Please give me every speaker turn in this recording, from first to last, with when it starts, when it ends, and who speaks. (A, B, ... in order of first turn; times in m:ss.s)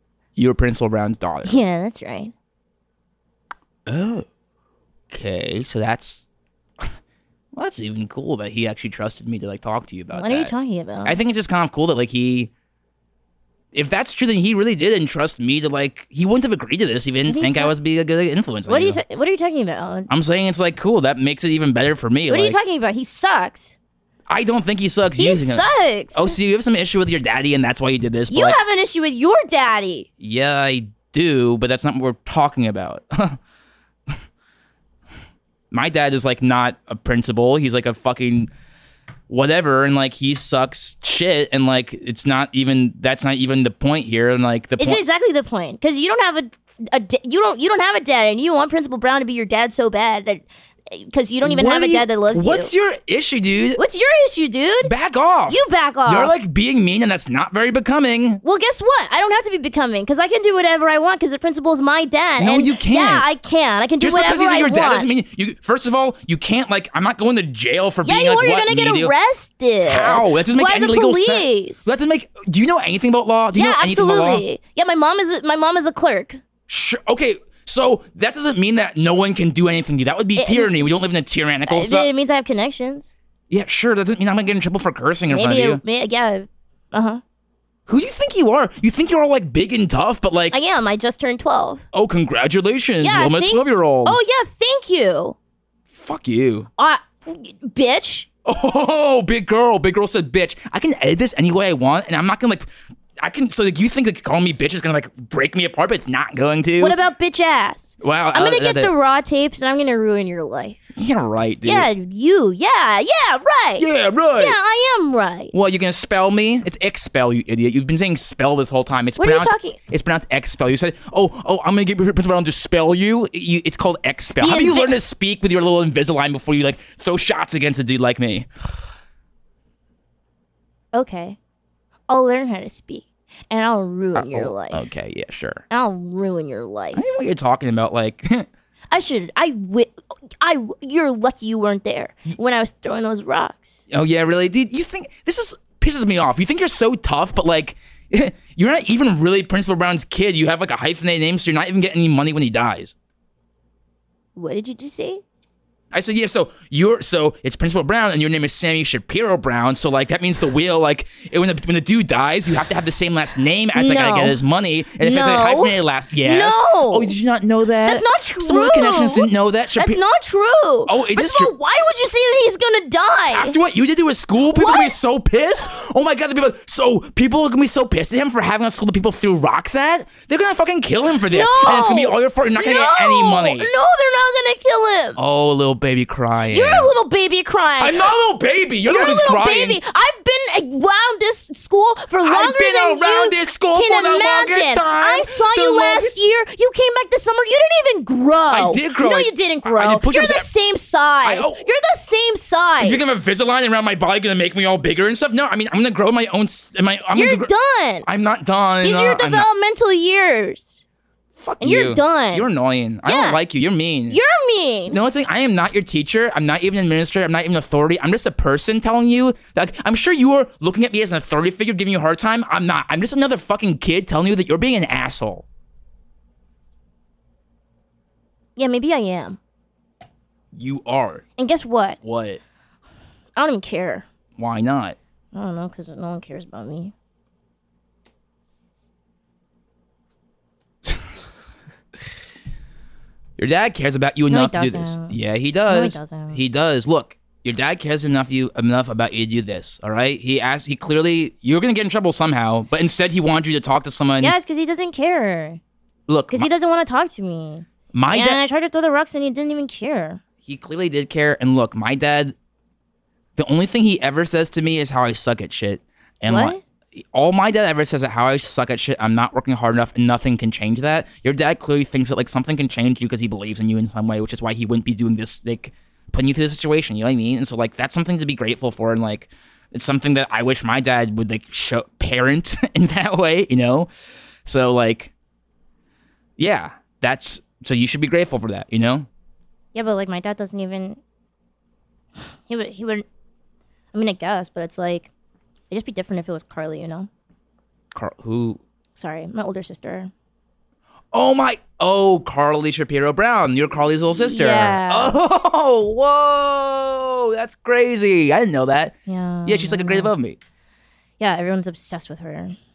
0:00.4-0:01.6 A
0:01.4-0:02.3 B
0:03.9-0:04.3 A
0:05.1-0:06.3 A
0:07.5-0:10.5 A
0:10.1-0:11.2 B
0:11.0-0:12.5 A
0:13.7-0:19.0 A
0:17.3-0:17.8 B
0:18.7-0:20.1 B
0:20.1-0:22.6 A
0:22.3-0:23.8 B
0:24.3-0:28.6 A
0:25.2-0:26.4 B
0:28.3-0:30.1 B
0:30.2-0:33.4 A
0:35.7-0:38.5 A
0:39.3-0:45.0 A
0:44.8-0:52.7 B
0:51.4-0:53.8 A
0:53.8-0:54.9 B
0:54.8-0:58.4 A
0:55.5-0:56.3 B
0:58.4-1:05.1 B
1:02.4-1:03.3 A
1:04.0-1:09.1 A
1:08.0-1:12.0 B
1:09.8-1:14.4 A
1:13.5-1:16.4 B
1:16.7-1:22.1 A
1:20.4-1:20.7 B
1:21.7-1:23.1 B
1:23.5-1:25.8 A
1:25.3-1:27.2 B
1:27.9-1:30.6 A
1:30.5-1:31.9 B
1:31.9-1:34.2 A
1:33.0-1:35.4 B
1:35.9-1:36.7 A
1:36.8-1:38.3 B
1:38.4-1:47.0 A
1:46.8-1:50.9 B
1:48.0-1:48.9 A
1:51.0-1:51.9 A
1:51.6-1:55.5 B
1:53.8-1:54.6 A
1:55.5-2:08.5 A
1:59.2-1:59.8 B
2:04.4-2:05.0 B
2:10.9-2:11.4 B
2:12.1-2:14.9 B
2:14.1-2:15.6 A
2:15.7-2:17.1 B
2:16.9-2:18.5 A
2:18.9-2:23.8 B
2:23.9-2:33.0 A
2:34.4-2:35.2 B
2:35.9-2:50.0 A
2:43.7-2:44.4 B
2:45.0-2:47.2 B
2:47.8-2:53.6 B
2:50.9-2:51.5 A
2:53.3-3:03.7 A
2:54.5-2:55.0 B
3:01.3-3:05.2 B
3:05.2-3:06.9 A
3:06.5-3:08.1 B
3:07.8-3:09.8 A
3:08.9-3:23.1 B
3:12.2-3:16.2 A
3:18.5-3:20.5 A
3:21.2-3:21.6 A
3:22.8-3:27.5 A
3:27.1-3:28.1 B
3:28.1-3:29.5 A
3:28.8-3:30.8 B
3:31.4-3:34.2 A
3:31.6-3:32.5 B
3:33.1-3:33.4 B
3:34.1-3:35.0 B
3:34.9-3:45.4 A
3:48.6-3:49.4 B
3:50.5-3:51.2 A
3:51.4-3:52.0 B
3:52.0-3:52.4 A
3:53.4-3:54.1 B
3:54.4-3:55.0 A
3:55.3-3:56.9 B
4:03.4-4:14.4 A
4:04.3-4:05.2 B
4:05.7-4:06.4 B
4:14.2-4:15.6 B
4:16.1-4:16.5 A
4:16.3-4:20.2 B
4:17.9-4:18.4 A
4:20.4-4:22.4 A
4:23.4-4:43.9 A
4:26.3-4:26.6 B
4:44.4-4:45.1 A
4:46.4-4:49.1 A
4:49.7-4:51.0 B
4:52.2-4:53.0 B
4:53.9-4:55.1 B
4:55.7-4:57.1 B
4:57.9-4:58.6 A
4:59.0-5:00.1 B
5:01.1-5:10.4 A
5:04.1-5:05.2 B
5:09.1-5:10.1 B
5:11.2-5:12.6 B